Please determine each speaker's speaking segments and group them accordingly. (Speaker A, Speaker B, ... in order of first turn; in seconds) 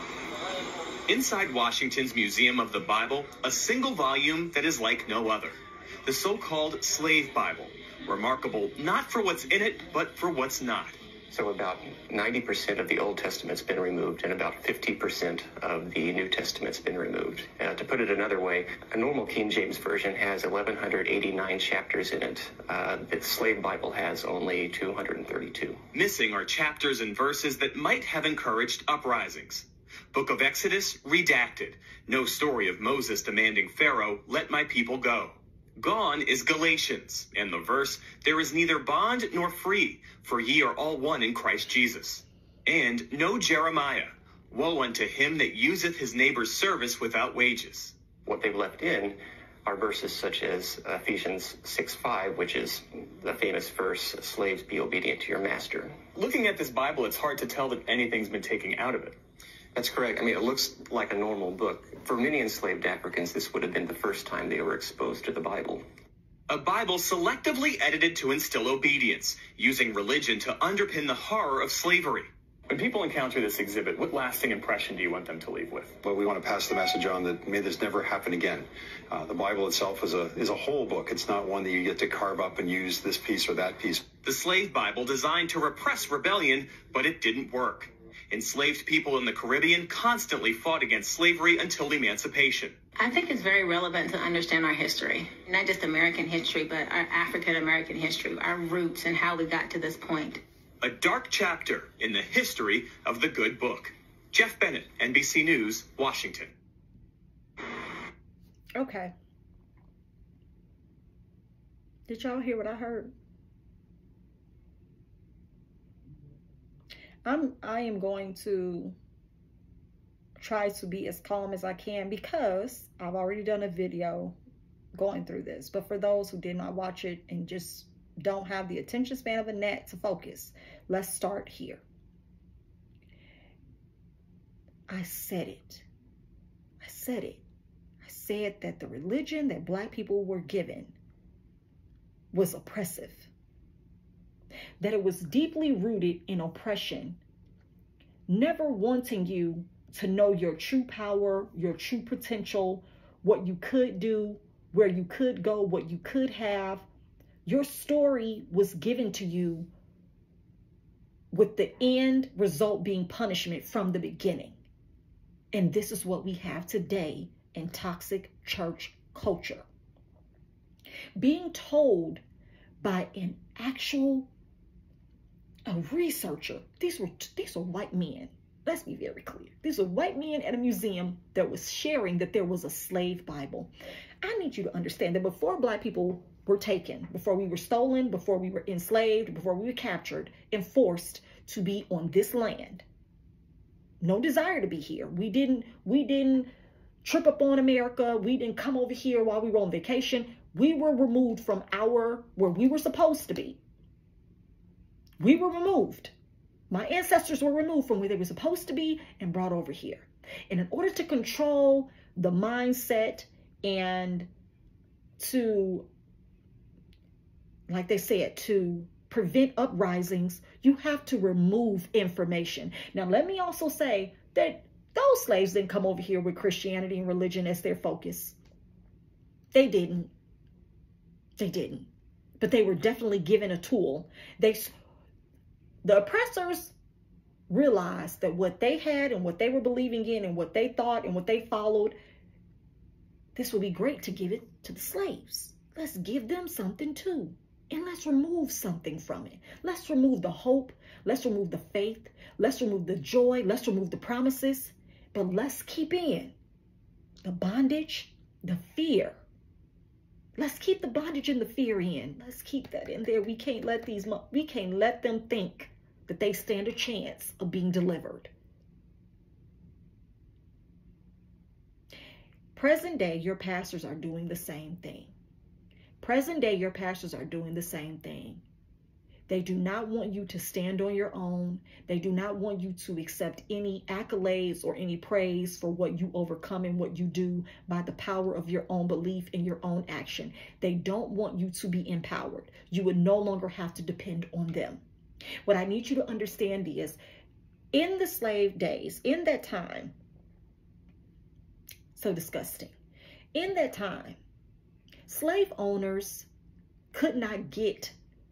Speaker A: 1.1-11.0, 25.9-47.9, 56.1-59.2, 66.5-76.0, 84.2-92.8, 100.8-106.5
Speaker B: 11.3-25.8, 48.2-56.0, 59.7-65.8
Speaker C: 76.0-84.0
Speaker D: 93.0-100.4
Speaker E: 108.8-109.1, 112.1-113.1, 117.2-119.0, 120.4-124.3, 124.9-131.8, 134.9-135.8, 136.8-137.4, 138.0-140.9, 142.3-143.3, 144.8-147.2, 148.3-156.8, 157.4-159.7, 161.3-164.6, 165.5-169.6, 171.2-172.2, 172.8-174.3, 175.7-192.8, 194.0-196.5, 197.0-203.6, 205.2-206.1, 206.7-214.3, 215.2-215.9, 217.7-228.4, 229.5-230.1, 231.4-231.9, 232.4-234.7, 235.8-236.7, 237.5-241.9, 243.3-256.3, 257.2-259.2, 260.4-268.3, 272.5-275.1, 276.0-278.4, 279.3-294.8, 295.4-297.0, 297.7-299.9, 301.9-302.7, 303.3-304.2, 305.1-306.3, 306.9-307.9